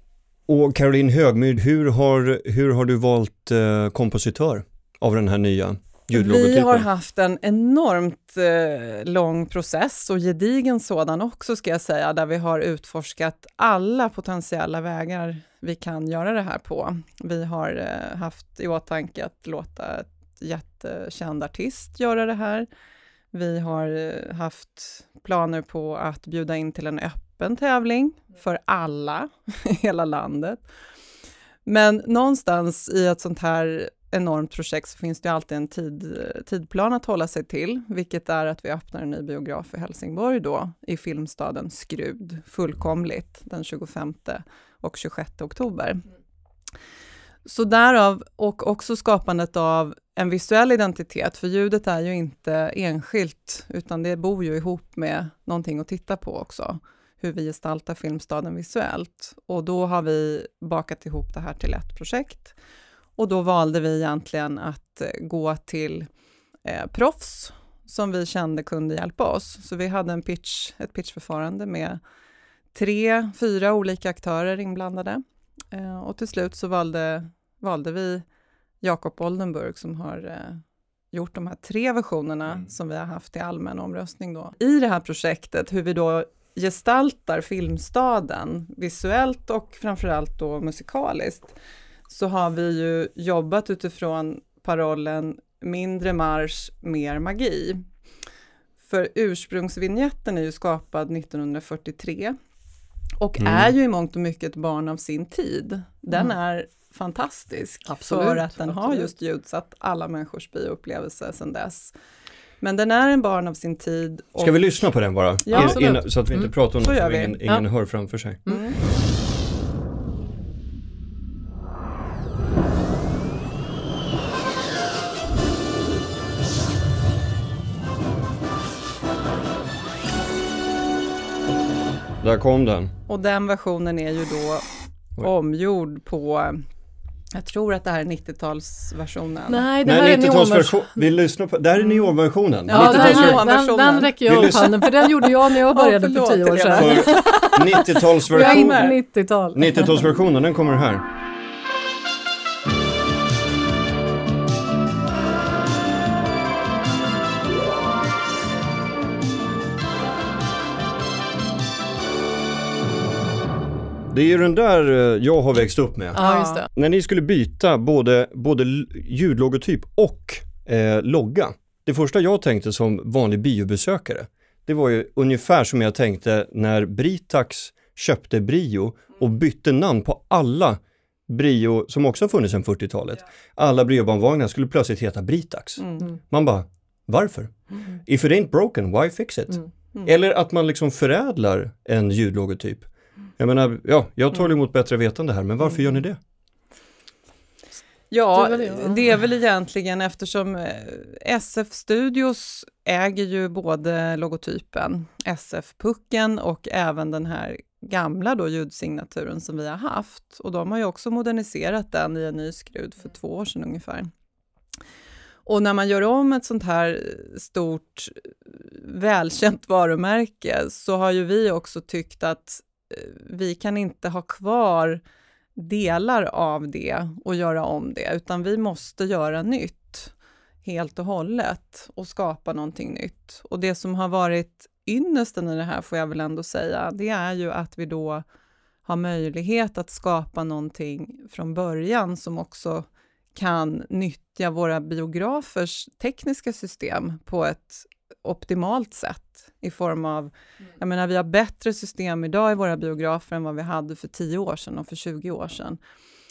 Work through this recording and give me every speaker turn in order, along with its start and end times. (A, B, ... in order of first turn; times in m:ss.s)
0:00.5-0:06.9 A
0:06.1-0:22.7 B
0:23.3-0:30.7 B
0:31.6-0:46.1 B
0:47.5-1:02.6 B
1:03.2-1:06.1 B
1:06.6-1:12.0 B
1:12.7-1:15.2 B
1:15.7-1:18.2 B
1:18.8-1:31.6 B
1:32.1-1:37.8 B
1:38.8-1:42.3 B
1:43.2-1:51.9 B
1:43.4-1:43.7 A
1:47.9-1:49.1 C
1:52.6-1:57.4 B
1:54.4-1:58.4 A
1:55.5-1:56.1 C
1:58.5-1:58.8 B
2:12.2-2:12.9 A
2:13.1-2:14.6 B
2:15.2-2:16.6 B
2:17.3-2:19.6 B
2:19.5-2:21.0 C
2:19.8-2:23.5 A
2:22.7-2:30.0 C
2:22.7-2:29.0 B
2:24.3-2:24.7 A
2:26.8-2:29.0 A
2:29.6-2:31.0 A
2:44.1-3:16.2 A
2:46.2-2:46.7 C
2:46.2-2:46.6 B
3:05.8-3:06.1 B
3:18.1-3:34.1 B
3:18.3-3:19.2 C
3:35.4-3:45.0 B
3:45.6-3:50.1 B
3:50.6-3:58.2 B
3:58.9-4:15.8 B